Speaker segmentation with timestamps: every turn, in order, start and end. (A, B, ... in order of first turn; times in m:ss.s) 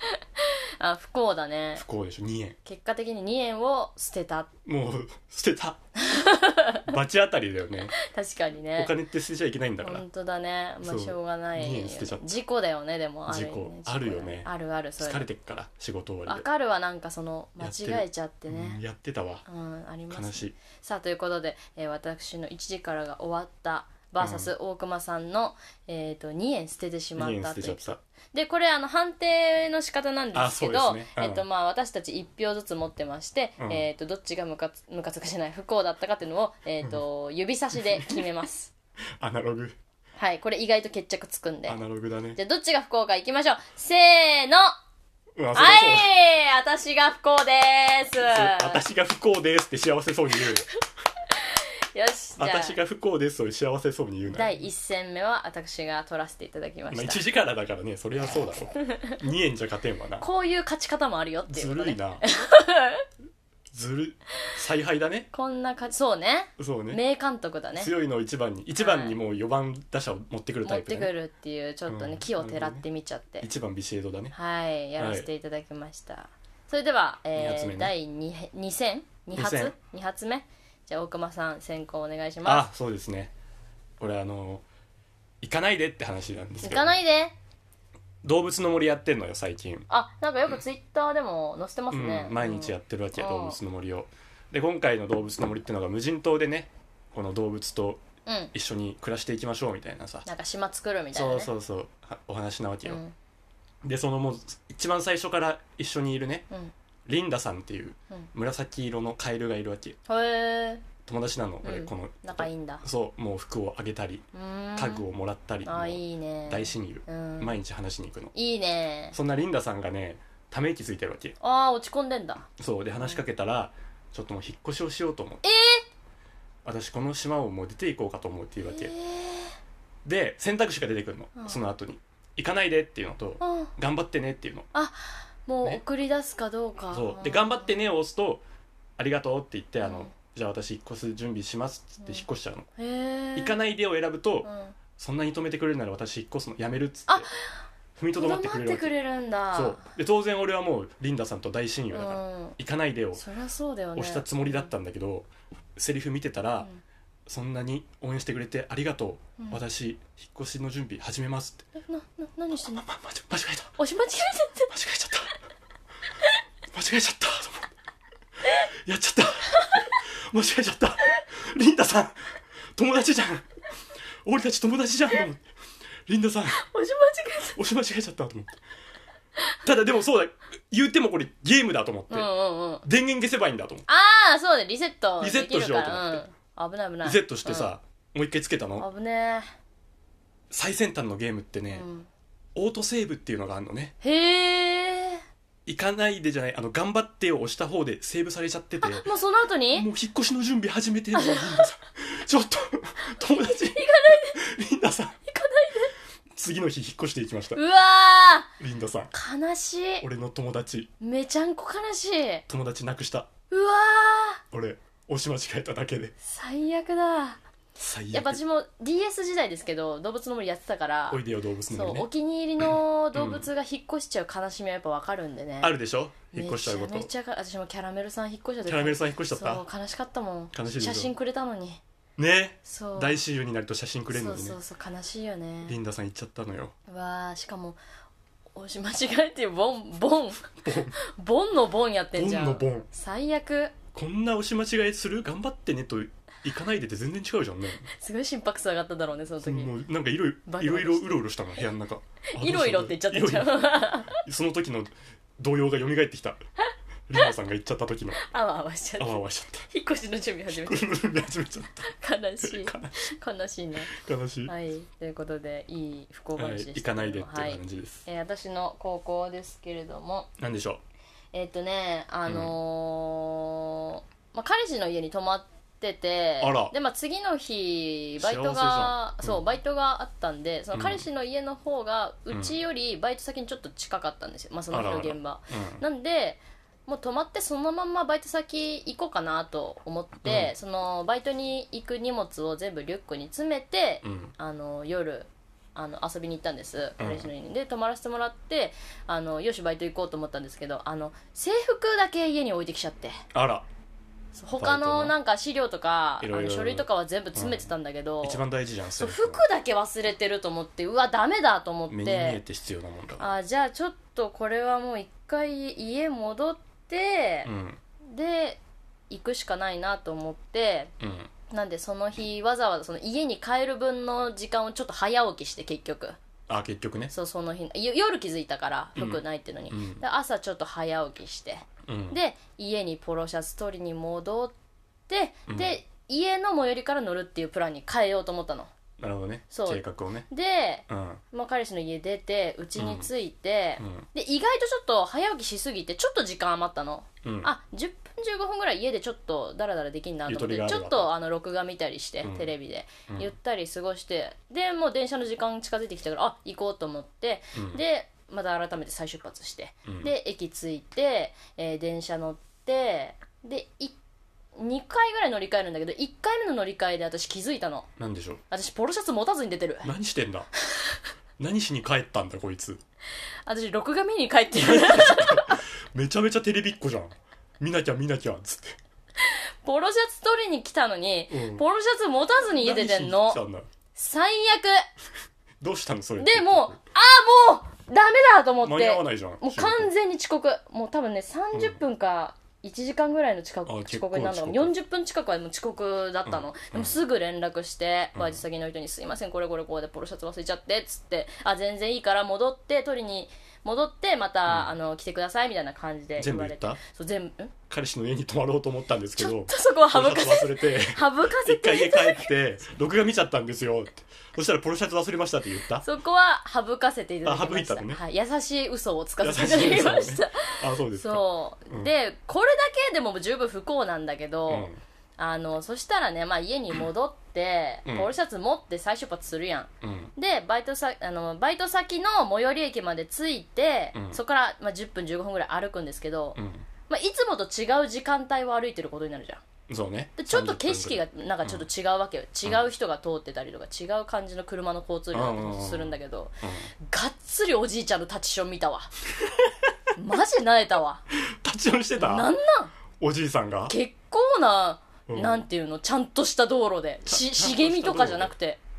0:00.4-0:01.8 A
0:01.8-0:02.6 B
0:02.6-0:04.5 A
0:04.6-0:05.8 B
0:06.0-0:06.9 A
0:06.9-0:08.0 B
0:08.0-0:09.0 A
0:08.8-0:10.0 B
0:09.8-0:15.3 A
0:10.8-0:12.4 B
0:13.3-0:14.5 B
0:15.0-0:16.4 B
0:16.3-0:18.8 A
0:17.6-0:19.4 B
0:19.5-0:38.7 A
0:20.1-0:20.6 B
0:24.2-0:24.5 B
0:27.2-0:28.0 B
0:30.3-0:31.4 B
0:33.6-0:33.8 B
0:37.8-0:38.2 B
0:39.2-0:39.8 B
0:40.2-0:41.8 A
0:41.7-0:42.4 B
0:42.4-0:44.8 A
0:45.4-0:46.1 B
0:45.5-0:48.8 A
0:48.2-0:50.6 B
0:51.3-0:52.8 A
0:52.4-0:54.6 B
0:54.3-0:57.2 A
0:56.9-1:00.3 B
0:58.8-0:59.2 A
1:00.2-1:03.0 A
1:01.5-1:02.2 B
1:03.7-1:05.3 B
1:05.3-1:07.9 A
1:06.6-1:07.0 B
1:07.8-1:11.1 B
1:08.8-1:09.2 A
1:10.6-1:13.5 A
1:11.9-1:12.8 B
1:13.4-1:14.4 B
1:14.3-1:22.7 A
1:15.0-1:15.3 B
1:17.4-1:17.9 B
1:19.3-1:19.8 B
1:22.5-1:23.3 B
1:24.0-1:24.6 B
1:25.4-1:27.0 B
1:26.6-1:27.4 A
1:28.2-1:29.9 B
1:29.9-1:33.6 A
1:31.9-1:40.3 B
1:38.3-1:38.5 A
1:40.3-1:41.5 A
1:41.1-1:43.0 B
1:42.9-1:43.1 A
1:43.8-1:46.5 B
1:47.1-1:50.0 B
1:50.1-1:50.9 A
1:51.0-1:58.3 B
1:51.6-1:52.8 A
1:54.3-1:55.1 A
1:55.6-1:57.6 A
1:58.4-1:59.2 A
1:59.1-2:01.4 B
2:01.4-2:02.5 A
2:02.6-2:05.4 B
2:05.4-2:05.8 A
2:06.6-2:08.9 B
2:08.6-2:09.6 A
2:10.0-2:14.7 B
2:11.4-2:11.6 A
2:13.4-2:13.7 A
2:14.7-2:17.7 A
2:16.9-2:18.4 B
2:19.0-2:22.7 B
2:19.8-2:20.1 A
2:22.8-2:23.6 A
2:23.4-2:27.3 B
2:24.4-2:24.8 A
2:27.1-2:27.4 A
2:28.0-2:28.9 B
2:28.2-2:29.9 A
2:29.5-2:33.2 B
2:31.9-2:32.6 A
2:33.2-2:34.7 A
2:34.0-2:36.7 B
2:37.3-2:41.7 B
2:41.8-2:42.8 A
2:42.6-2:43.8 B
2:43.8-2:44.8 A
2:44.7-2:45.3 B
2:46.7-2:47.7 B
2:48.7-2:53.5 B
2:49.5-2:49.9 A
2:54.2-2:55.4 B
2:56.1-2:56.6 B
2:56.6-2:57.6 A
2:57.5-2:58.6 B
2:59.6-3:02.3 B
3:02.1-3:02.8 A
3:02.8-3:03.9 B
3:03.9-3:07.7 A
3:05.2-3:06.2 B
3:07.0-3:08.9 B
3:08.8-3:09.5 A
3:10.5-3:11.9 B
3:11.7-3:12.1 A
3:12.6-3:13.9 B
3:14.0-3:15.2 A
3:15.7-3:19.1 B
3:18.8-3:19.9 A
3:19.7-3:25.2 B
3:21.1-3:21.7 A
3:23.2-3:24.4 A
3:25.3-3:25.9 A
3:26.3-3:27.6 B
3:27.5-3:28.5 A
3:28.6-3:29.1 B
3:29.1-3:30.0 A
3:30.0-3:30.9 B
3:31.0-3:32.4 A
3:32.5-3:33.3 B
3:33.5-3:34.4 A
3:34.5-3:36.2 B
3:36.2-3:37.4 A
3:37.8-3:38.4 B
3:38.1-3:45.7 A
3:41.1-3:42.1 B
3:43.1-3:43.5 B
3:45.6-3:47.1 B
3:46.3-3:51.8 A
3:48.6-3:49.6 B
3:50.5-3:51.1 B
3:52.2-3:54.6 B
3:52.6-3:53.2 A
3:54.1-3:55.8 A
3:55.7-3:56.8 B
3:56.9-3:57.8 A
3:58.6-4:03.8 A
4:00.6-4:01.0 B
4:02.2-4:02.9 B
4:03.9-4:07.9 B
4:07.9-4:09.7 A
4:09.4-4:16.4 B
4:10.5-4:11.3 A
4:12.3-4:14.2 A
4:17.1-4:18.2 B
4:18.2-4:21.0 A
4:19.0-4:19.7 B
4:20.5-4:23.0 B
4:21.9-4:23.9 A
4:23.9-4:24.5 B
4:24.5-4:30.3 A
4:26.4-4:28.0 B
4:30.4-4:30.8 B
4:31.3-5:03.2 A
4:32.3-4:32.6 B
4:36.4-4:36.7 B
4:38.2-4:39.4 B
4:40.7-4:41.1 B
4:42.3-4:42.6 B
4:44.7-4:45.8 B
4:50.2-4:50.5 B
4:54.0-4:54.3 B
4:57.0-4:57.3 B
5:03.3-5:03.7 B
5:04.4-5:08.4 A
5:04.6-5:05.2 B
5:06.2-5:07.7 B
5:08.2-5:09.4 B
5:09.0-5:12.4 A
5:11.9-5:13.4 B
5:13.2-5:17.5 A
5:17.4-5:17.8 B
5:18.1-5:20.9 A
5:21.0-5:21.3 B
5:21.5-5:26.2 A
5:26.5-5:27.1 B
5:27.1-5:34.5 A
5:29.0-5:30.0 B
5:31.9-5:32.2 B
5:35.1-5:38.7 A
5:35.5-5:35.8 B
5:39.0-5:40.3 B
5:39.5-6:04.0 A
5:40.9-5:41.2 B
5:42.8-5:43.1 B
5:43.8-5:44.1 B
5:47.2-5:47.5 B
5:50.3-5:51.1 B
5:52.2-5:52.5 B
5:57.6-5:57.8 B
6:04.6-6:07.9 A
6:08.0-6:08.4 B
6:08.5-6:09.9 A
6:09.8-6:10.5 B
6:10.7-6:11.0 A
6:11.4-6:12.8 B
6:13.5-6:15.6 A
6:14.6-6:18.8 B
6:19.2-6:23.4 A
6:21.3-6:21.6 B
6:22.6-6:23.7 B
6:24.0-6:24.9 A
6:25.6-6:26.8 B
6:26.2-6:47.5 A
6:28.6-6:29.9 B
6:31.5-6:31.8 B
6:33.7-6:34.7 B
6:36.3-6:37.0 B
6:38.2-6:38.4 B
6:44.5-6:44.8 B
6:46.2-6:46.8 B
6:47.7-6:55.9 B
6:49.2-6:52.3 A
6:55.8-7:19.4 A
6:57.2-6:58.0 B
6:59.2-7:01.9 B
7:04.5-7:04.8 B
7:07.8-7:08.1 B
7:09.8-7:10.1 B
7:13.9-7:14.2 B
7:16.4-7:16.7 B
7:19.7-7:21.6 B
7:20.2-7:28.9 A
7:25.1-7:26.7 B
7:29.2-7:29.5 B
7:30.0-7:31.0 A
7:31.1-7:32.3 B
7:32.0-7:32.7 A
7:33.0-7:33.8 B
7:33.7-7:38.6 A
7:35.1-7:35.4 B
7:37.1-7:38.3 B